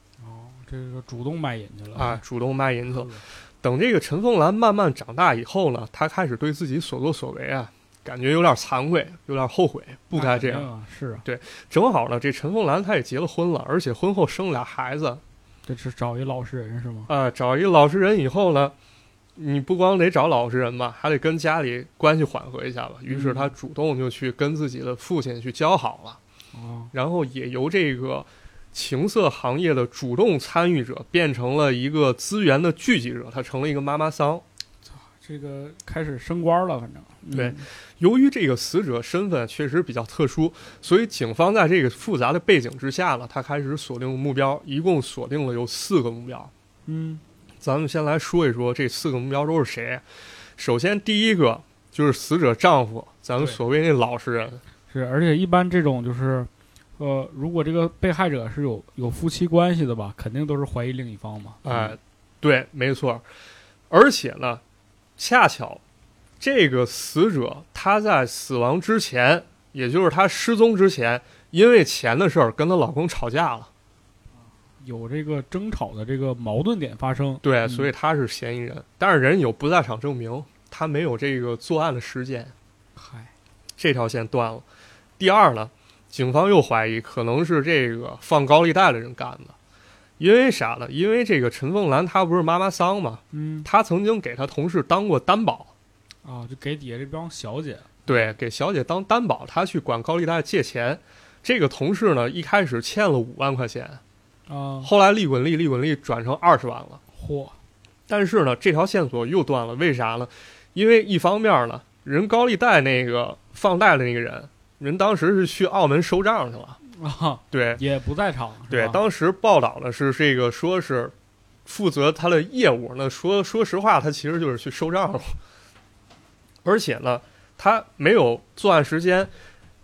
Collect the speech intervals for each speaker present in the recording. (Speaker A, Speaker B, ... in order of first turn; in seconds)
Speaker A: 0.2-2.2, 2.9-3.2, 10.1-11.2, 15.7-17.1, 23.1-23.5, 26.5-26.9, 34.9-37.7, 46.9-47.2, 54.9-62.0, 74.8-77.9, 83.0-83.3, 93.3-93.7, 96.2-98.3, 104.5-104.9, 107.1-107.6, 116.8-119.0
Speaker B: 1.9-10.7, 11.2-15.2, 17.1-18.8, 19.4-26.2, 26.9-34.5, 37.3-46.5, 47.6-54.6, 61.6-63.2, 63.9-64.6, 65.2-65.8, 66.4-73.7, 77.4-82.5, 83.8-84.7, 85.2-89.6, 90.2-95.7, 98.1-104.0, 104.8-107.0, 108.1-116.8, 117.5-117.8, 118.7-121.1, 121.7-125.4, 126.6-129.3